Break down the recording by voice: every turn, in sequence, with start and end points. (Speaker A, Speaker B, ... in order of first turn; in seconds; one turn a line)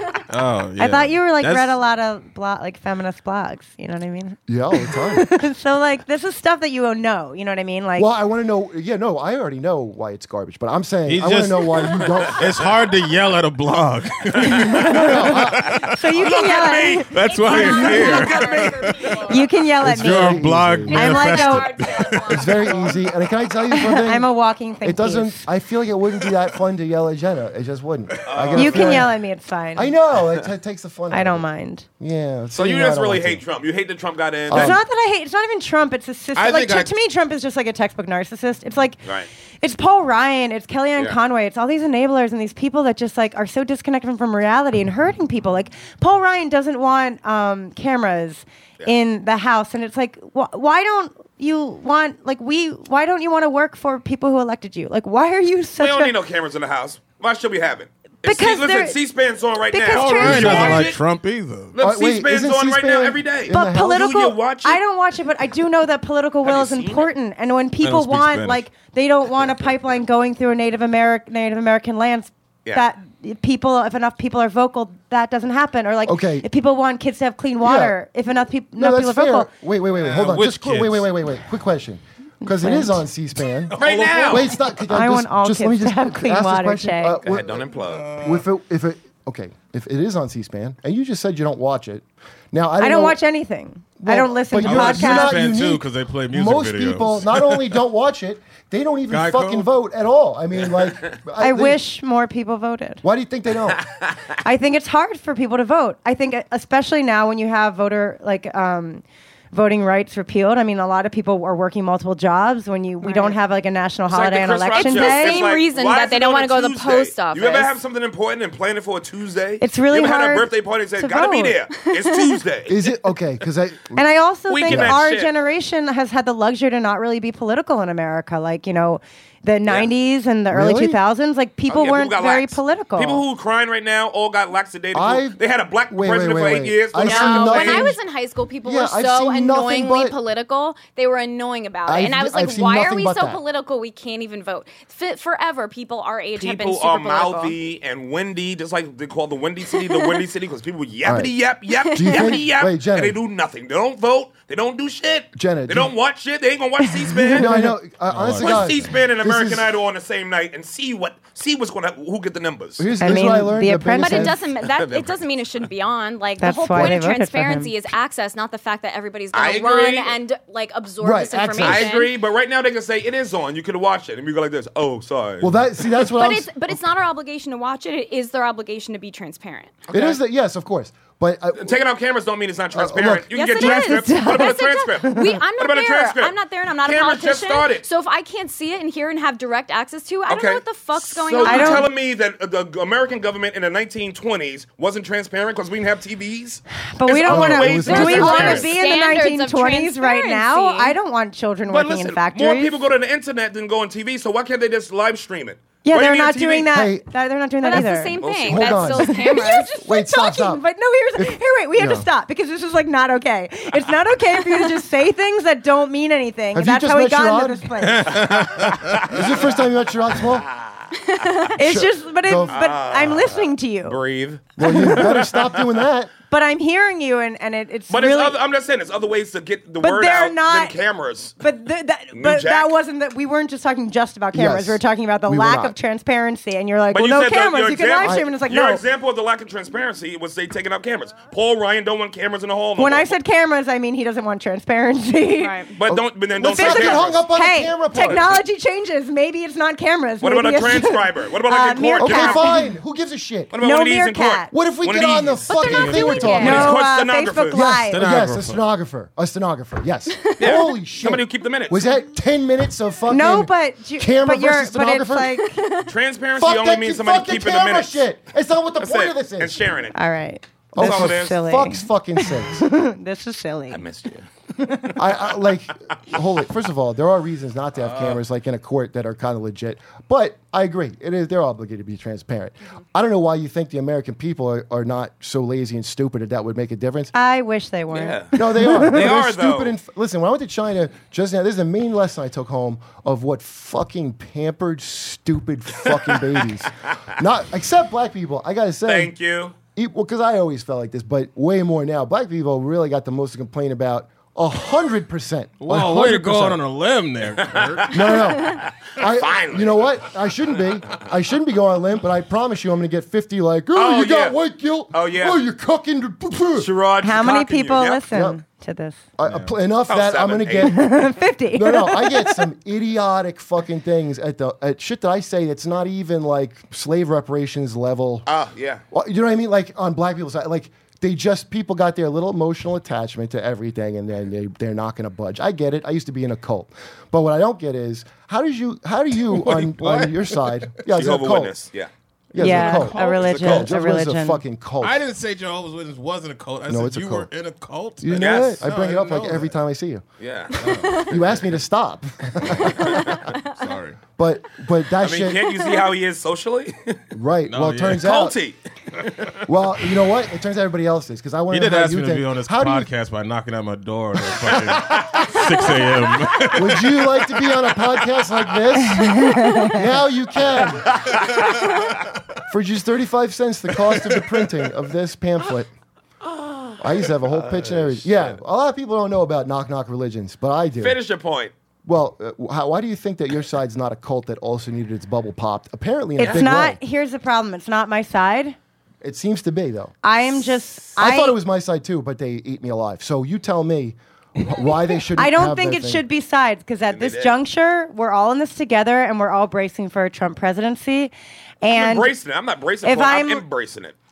Speaker A: 0.3-1.8
Speaker B: 0.8-8.1
Speaker C: 4.5-5.3
Speaker C: 8.0-12.7
Speaker A: 11.1-15.9
Speaker D: 14.3-14.6
Speaker B: 14.5-17.1
Speaker C: 15.0-15.8
Speaker D: 15.8-19.3
Speaker A: 17.1-19.1
Speaker E: 17.2-19.4
Speaker B: 19.3-21.7
Speaker C: 19.8-21.4
Speaker A: 19.9-22.7
Speaker E: 21.0-23.0
Speaker C: 22.2-24.3
Speaker B: 23.7-25.4
Speaker C: 24.8-29.1
Speaker D: 28.2-29.1
Speaker B: 28.6-29.9
Speaker C: 29.8-31.5
Speaker B: 31.1-31.9
Speaker C: 32.0-33.4
Speaker D: 32.5-34.8
Speaker C: 34.5-34.8
Speaker B: 34.5-39.0
Speaker A: 36.4-36.9
Speaker B: 39.6-56.1
Speaker D: 55.8-61.0
Speaker B: 58.2-59.0
Speaker B: 59.7-60.9
Speaker A: 59.9-61.8
Speaker D: 61.8-64.8
Speaker C: 61.8-64.0
Speaker B: 63.5-79.5
Speaker D: 66.4-67.1
Speaker A: 67.8-68.6
Speaker C: 76.0-76.5
Speaker C: 77.6-78.0
Speaker C: 78.8-83.8
Speaker A: 80.0-81.1
Speaker B: 82.4-83.0
Speaker A: 83.7-84.5
Speaker D: 83.8-84.5
Speaker C: 84.3-87.7
Speaker B: 84.8-87.2
Speaker D: 87.2-88.2
Speaker A: 87.9-88.4
Speaker C: 88.2-93.2
Speaker B: 92.8-95.4
Speaker C: 94.0-101.8
Speaker A: 94.6-97.7
Speaker A: 99.1-99.7
Speaker B: 101.4-103.0
Speaker C: 103.0-103.8
Speaker B: 104.4-115.4
Speaker E: 113.0-113.3
Speaker D: 114.1-122.8
Speaker E: 114.8-117.8
Speaker B: 119.6-121.6
Speaker C: 122.7-124.0
Speaker B: 124.0-133.2
Speaker D: 124.5-125.3
Speaker C: 124.7-125.0
Speaker C: 130.5-131.0
Speaker D: 131.7-137.9
Speaker C: 134.9-135.4
Speaker C: 135.9-138.0
Speaker E: 137.0-147.6
Speaker C: 138.6-140.2
Speaker C: 141.8-143.4
Speaker D: 146.3-157.5
Speaker E: 149.7-150.2
Speaker C: 151.0-151.3
Speaker E: 151.8-152.4
Speaker C: 151.9-153.2
Speaker C: 155.3-155.9
Speaker C: 157.3-159.7
Speaker B: 157.3-157.7
Speaker A: 158.1-158.7
Speaker D: 158.4-162.9
Speaker C: 162.8-164.4
Speaker B: 163.0-164.3
Speaker E: 164.0-172.1
Speaker D: 164.6-165.2
Speaker B: 166.4-167.7
Speaker D: 169.3-170.2
Speaker C: 171.0-171.9
Speaker D: 171.6-175.6
Speaker C: 175.4-176.8
Speaker E: 176.1-179.7
Speaker D: 179.9-180.2
Speaker C: 179.9-181.8
Speaker D: 181.6-187.9
Speaker C: 182.7-183.3
Speaker E: 183.3-191.9
Speaker B: 183.6-185.3
Speaker D: 190.3-198.7
Speaker B: 191.4-191.9
Speaker B: 197.0-202.8
Speaker C: 197.2-198.7
Speaker E: 197.9-201.0
Speaker D: 201.7-206.7
Speaker B: 205.8-208.2
Speaker C: 206.7-207.1
Speaker E: 207.6-209.7
Speaker D: 208.2-209.0
Speaker C: 208.4-210.6
Speaker B: 208.9-218.2
Speaker C: 211.2-212.1
Speaker C: 216.5-220.5
Speaker A: 217.8-219.2
Speaker D: 219.1-219.4
Speaker D: 220.3-220.9
Speaker E: 221.1-221.5
Speaker B: 221.6-224.0
Speaker C: 221.6-222.6
Speaker D: 222.5-225.7
Speaker C: 224.6-226.1
Speaker B: 224.6-225.0
Speaker B: 226.3-228.4
Speaker D: 227.9-231.4
Speaker B: 229.8-230.8
Speaker B: 231.4-238.8
Speaker D: 232.1-232.7
Speaker C: 234.3-235.8
Speaker D: 236.9-243.1
Speaker C: 238.0-238.3
Speaker B: 242.8-245.6
Speaker E: 245.4-245.7
Speaker D: 245.8-247.2
Speaker C: 245.9-248.4
Speaker B: 246.5-252.7
Speaker D: 250.2-252.5
Speaker C: 252.0-253.5
Speaker D: 253.5-255.8
Speaker B: 253.6-254.5
Speaker C: 254.5-256.8
Speaker E: 255.5-256.7
Speaker A: 255.6-256.7
Speaker B: 255.8-258.1
Speaker D: 256.4-257.6
Speaker C: 257.5-265.4
Speaker A: 257.9-258.7
Speaker D: 260.4-261.9
Speaker B: 263.1-265.6
Speaker D: 265.9-268.0
Speaker C: 266.4-269.6
Speaker D: 268.8-270.0
Speaker B: 269.9-273.8
Speaker C: 270.7-272.7
Speaker D: 270.8-271.4
Speaker D: 273.7-274.3
Speaker B: 274.6-274.9
Speaker C: 275.0-287.1
Speaker D: 277.8-278.2
Speaker B: 287.1-289.0
Speaker D: 287.9-289.7
Speaker C: 288.4-299.1
Speaker D: 298.9-299.6
Speaker C: 299.8-306.6
Speaker A: 305.6-308.1
Speaker D: 307.4-310.0
Speaker C: 307.9-316.7
Speaker D: 313.7-314.4
Speaker D: 314.9-315.4
Speaker D: 316.6-318.0
Speaker B: 317.0-319.0
Speaker C: 318.1-318.4
Speaker C: 319.2-328.3
Speaker A: 319.2-319.5
Speaker D: 319.9-320.8
Speaker B: 320.7-322.5
Speaker D: 328.3-328.8
Speaker C: 328.9-341.6
Speaker A: 339.3-340.6
Speaker D: 341.0-341.9
Speaker C: 342.3-345.0
Speaker B: 342.4-344.4
Speaker A: 342.4-343.4
Speaker D: 343.1-343.7
Speaker A: 344.8-349.6
Speaker C: 346.7-347.3
Speaker C: 348.0-350.0
Speaker D: 348.1-348.6
Speaker D: 350.2-351.0
Speaker A: 350.6-351.1
Speaker C: 351.1-353.2
Speaker A: 352.4-354.0
Speaker C: 354.2-355.5
Speaker D: 355.0-357.0
Speaker C: 357.1-358.3
Speaker A: 357.5-358.1
Speaker D: 358.0-359.4
Speaker C: 359.5-362.9
Speaker A: 361.5-367.0
Speaker C: 364.3-365.5
Speaker C: 366.5-371.0
Speaker B: 369.2-369.8
Speaker D: 370.8-371.6
Speaker C: 372.5-375.7
Speaker D: 376.4-376.8
Speaker C: 376.8-381.0
Speaker D: 377.6-378.4
Speaker D: 380.8-381.5
Speaker C: 381.9-386.8
Speaker B: 386.2-388.6
Speaker C: 389.0-389.9
Speaker B: 390.0-391.4
Speaker C: 391.0-396.1
Speaker B: 395.2-402.1
Speaker D: 396.9-397.4
Speaker D: 401.7-403.9
Speaker B: 402.8-403.4